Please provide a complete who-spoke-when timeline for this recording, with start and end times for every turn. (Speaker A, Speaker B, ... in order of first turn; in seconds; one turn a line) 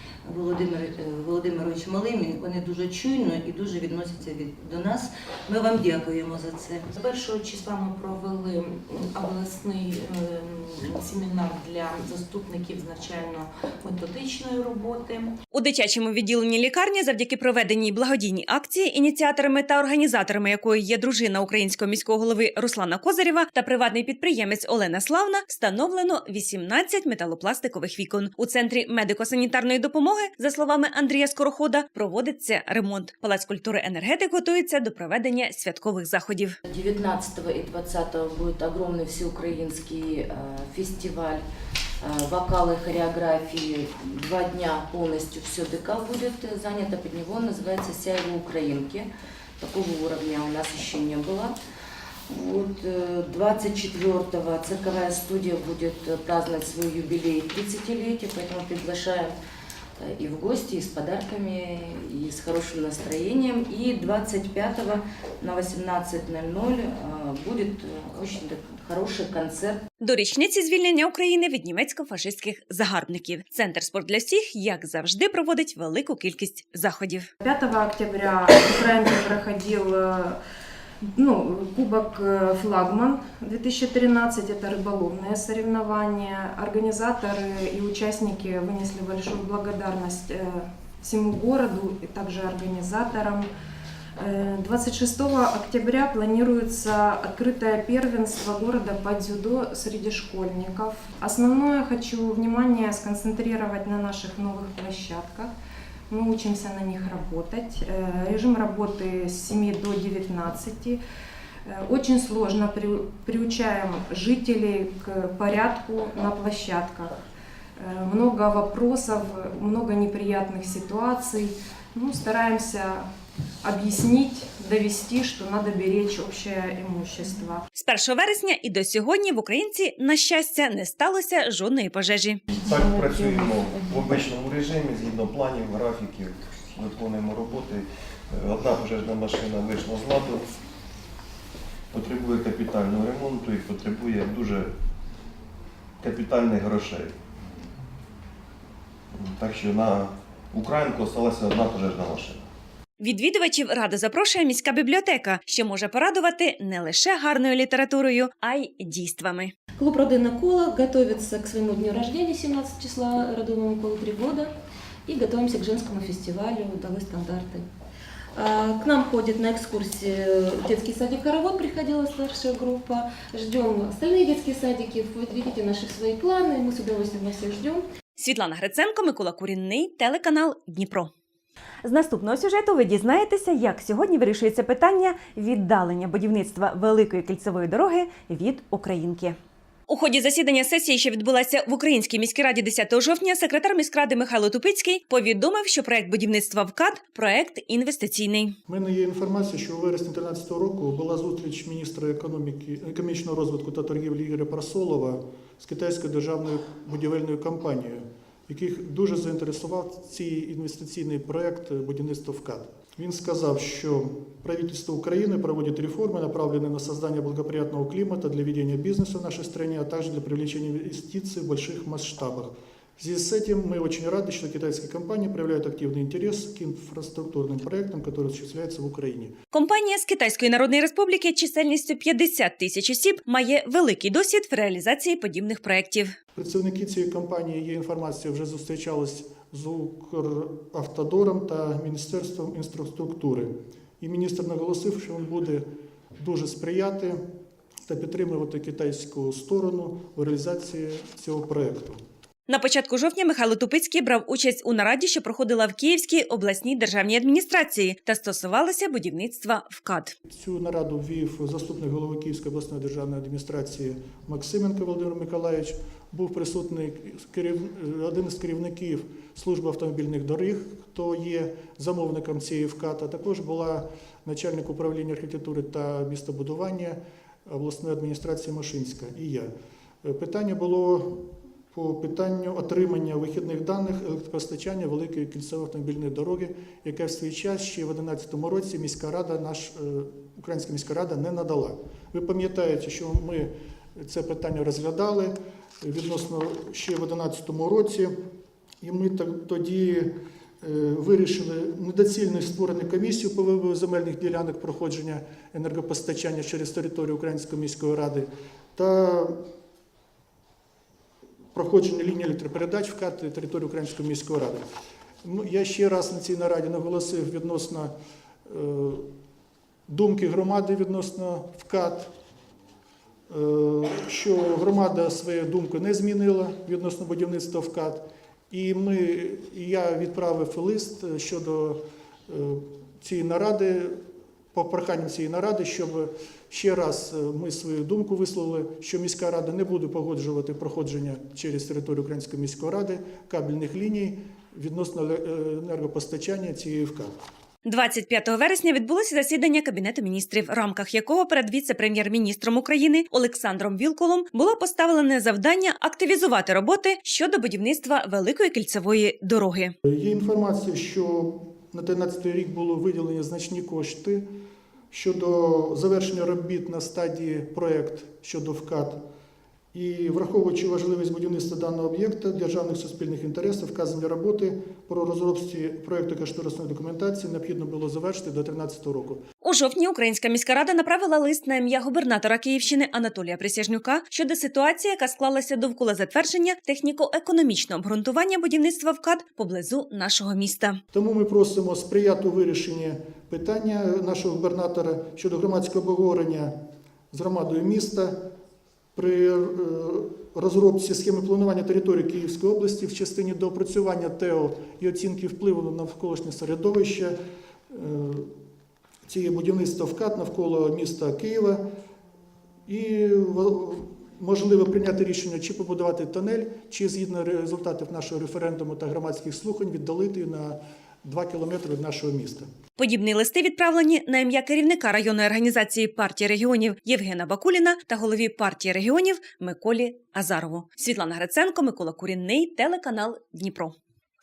Speaker A: 0.2-6.9
Speaker B: 7.3-11.9
Speaker B: 12.5-15.0
Speaker C: 15.5-36.6
Speaker D: 36.7-41.4
Speaker D: 42.0-49.1
Speaker D: 49.6-51.5
Speaker D: 52.3-59.4
Speaker D: 60.0-69.8
Speaker C: 70.0-77.3
Speaker E: 77.4-80.4
Speaker E: 81.1-93.5
Speaker E: 94.2-105.5
Speaker E: 106.1-111.0
Speaker E: 111.7-117.2
Speaker E: 117.8-123.1
Speaker E: 123.6-127.6
Speaker C: 127.7-132.4
Speaker F: 132.5-140.4
Speaker F: 141.9-144.7
Speaker F: 146.0-147.1
Speaker F: 149.1-152.4
Speaker C: 153.0-159.5
Speaker G: 159.8-164.5
Speaker G: 165.1-167.7
Speaker G: 168.3-177.8
Speaker C: 178.2-181.1
Speaker C: 181.8-189.4
Speaker C: 189.9-198.6
Speaker H: 198.7-229.3
Speaker C: 229.5-236.2
Speaker H: 236.3-243.5
Speaker H: 244.0-245.6
Speaker H: 246.2-247.2
Speaker H: 247.8-252.0
Speaker C: 252.5-260.1
Speaker H: 260.3-279.5
Speaker H: 280.0-298.1
Speaker H: 298.8-309.4
Speaker H: 311.5-314.6
Speaker H: 315.2-317.9
Speaker H: 318.4-319.1
Speaker H: 319.9-322.1
Speaker H: 323.3-334.0
Speaker H: 334.5-347.1
Speaker C: 347.6-359.8
Speaker H: 359.9-364.2
Speaker H: 364.9-369.0
Speaker H: 369.7-379.2
Speaker C: 379.4-390.8
Speaker H: 390.9-396.5
Speaker H: 397.1-398.3
Speaker H: 398.9-407.2
Speaker H: 407.7-408.3
Speaker H: 409.1-411.6
Speaker H: 412.7-422.5
Speaker C: 422.8-433.8